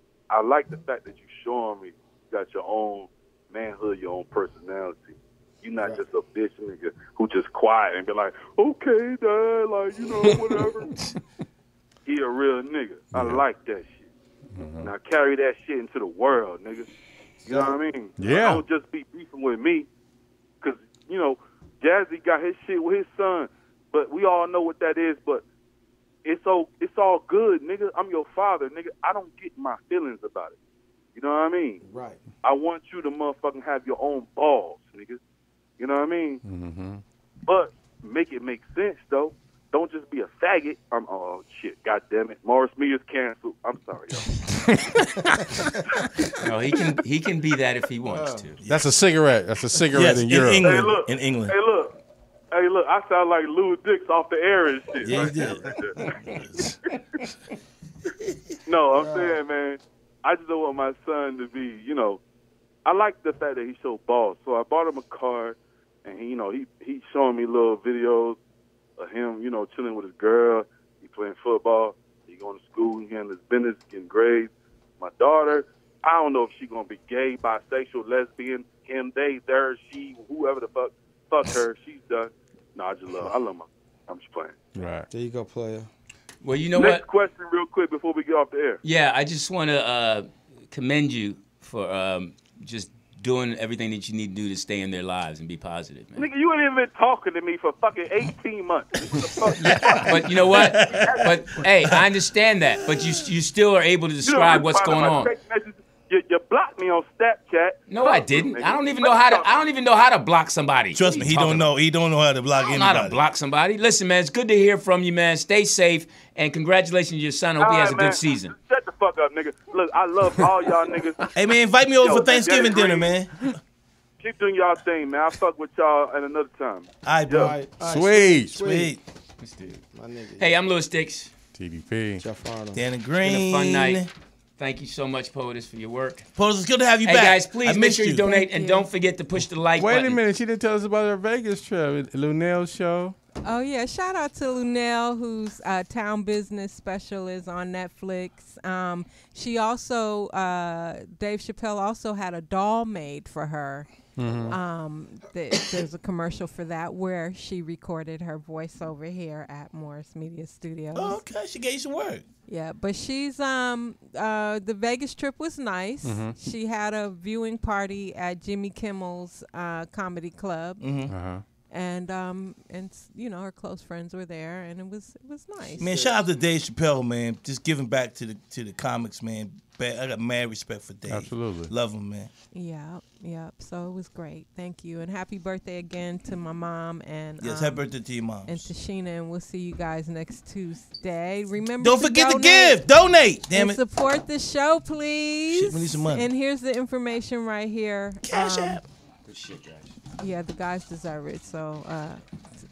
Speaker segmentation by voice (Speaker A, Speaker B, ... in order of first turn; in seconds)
Speaker A: 0.3-10.9, 12.1-14.1, 14.8-16.9, 17.4-19.9, 20.6-25.4, 26.2-30.5, 31.1-31.8, 32.4-35.2, 35.8-36.4, 37.5-44.2, 50.6-51.9, 52.5-56.2, 58.6-62.2, 62.9-68.4, 69.0-84.5, 86.7-88.8, 96.2-101.7, 104.2-109.5, 117.6-121.3, 122.0-123.2, 124.2-127.5
Speaker B: 13.1-13.4, 14.5-14.9, 18.2-18.6, 36.4-37.0, 44.6-45.7, 48.7-50.9, 84.7-85.1, 127.8-128.6, 131.5-132.2, 139.8-143.2, 154.2-154.6, 166.0-166.3, 171.1-171.4, 181.1-181.7
Speaker C: 17.4-17.8, 31.8-32.2, 48.1-48.4, 55.1-56.4, 59.0-59.4, 85.1-85.9, 127.3-128.9, 129.9-130.6, 132.2-132.8
Speaker D: 46.4-48.6, 86.4-87.0, 88.8-96.2, 99.5-105.3, 107.9-111.7, 112.6-118.5, 129.4-129.8, 130.4-131.3, 133.2-134.0, 134.6-136.3, 137.0-140.2, 199.2-199.9
Speaker E: 48.6-48.9, 49.9-51.5, 55.0-55.7, 56.2-56.7, 99.8-102.1, 110.9-113.2, 121.3-123.5, 127.0-127.6, 128.5-129.0, 132.7-134.1, 136.3-138.2, 160.9-162.2, 170.8-171.1, 175.8-182.3, 187.4-188.7, 191.8-193.8, 195.5-196.3, 198.2-198.8
Speaker F: 138.1-138.9, 143.4-153.9, 154.5-161.2, 162.5-170.9, 171.7-176.1, 182.5-187.8, 188.4-192.8, 193.5-198.8, 200.2-202.2